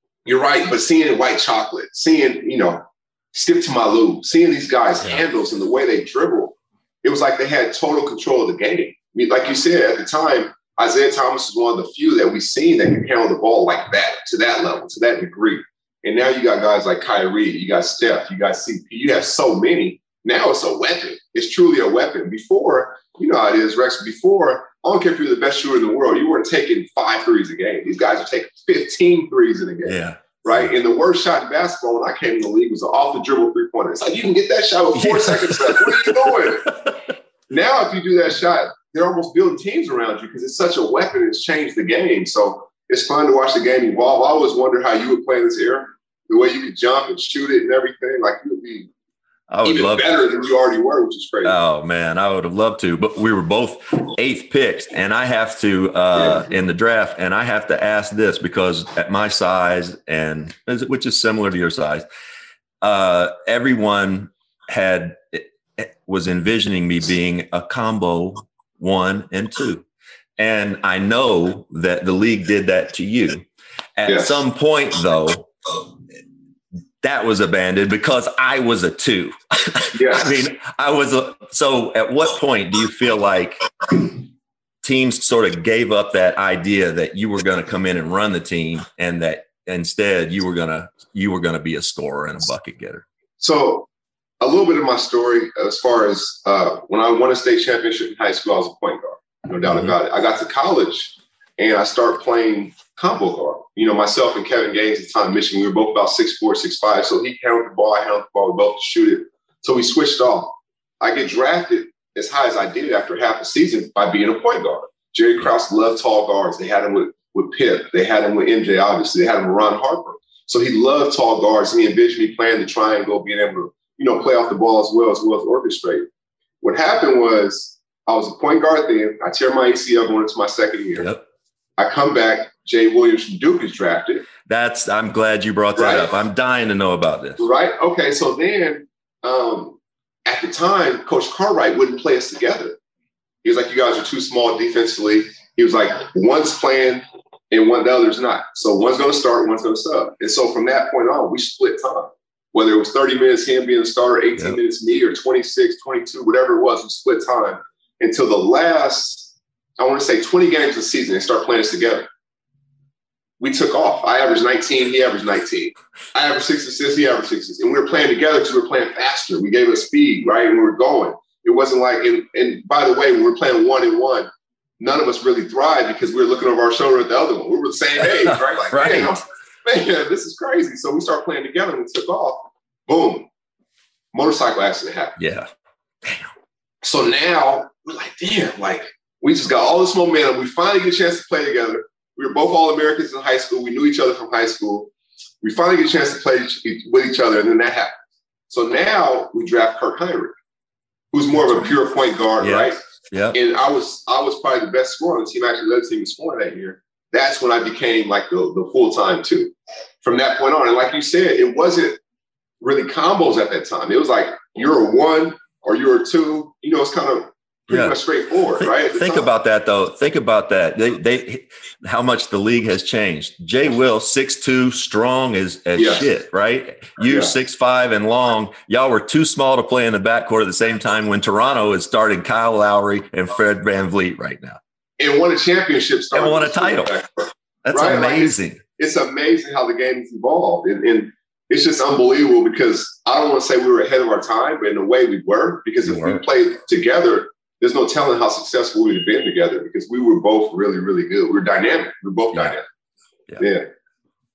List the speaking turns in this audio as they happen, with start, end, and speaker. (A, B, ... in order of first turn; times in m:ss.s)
0:00.2-0:36.7 A
0:29.8-0:30.7 B
0:34.9-0:36.9 B
0:37.5-0:48.9 A
0:49.5-0:50.2 B
0:49.6-0:51.5 A
0:51.4-1:02.0 B
0:56.1-0:56.5 A
1:02.8-1:09.8 B
1:10.4-1:13.4 B
1:14.0-1:15.5 B
1:14.0-1:14.4 A
1:17.0-1:24.1 B
1:19.9-1:20.4 A
1:24.8-1:33.0 B
1:33.4-1:33.9 A
1:34.4-2:06.1 A
1:39.6-1:39.9 B
2:06.6-2:11.1 A
2:10.9-2:11.2 B
2:11.8-2:14.3 A
2:14.4-2:17.4 B
2:15.8-2:16.1 A
2:17.4-2:22.8 A
2:23.4-2:42.0 A
2:43.4-2:54.3 A
2:54.8-3:03.3 A
2:58.0-2:59.2 B
3:04.1-3:05.2 A
3:05.2-3:05.5 B
3:06.0-3:06.3 B
3:06.8-3:20.3 A
3:21.1-3:22.8 A
3:22.4-3:23.4 B
3:23.3-3:32.0 A
3:32.6-3:39.3 A
3:37.7-3:38.0 B
3:38.6-3:54.6 B
3:45.8-3:46.1 A
3:47.1-3:47.3 A
3:55.0-4:12.6 A
3:56.1-3:56.9 B
3:57.6-3:58.6 B
4:05.8-4:06.2 B
4:13.4-4:13.6 A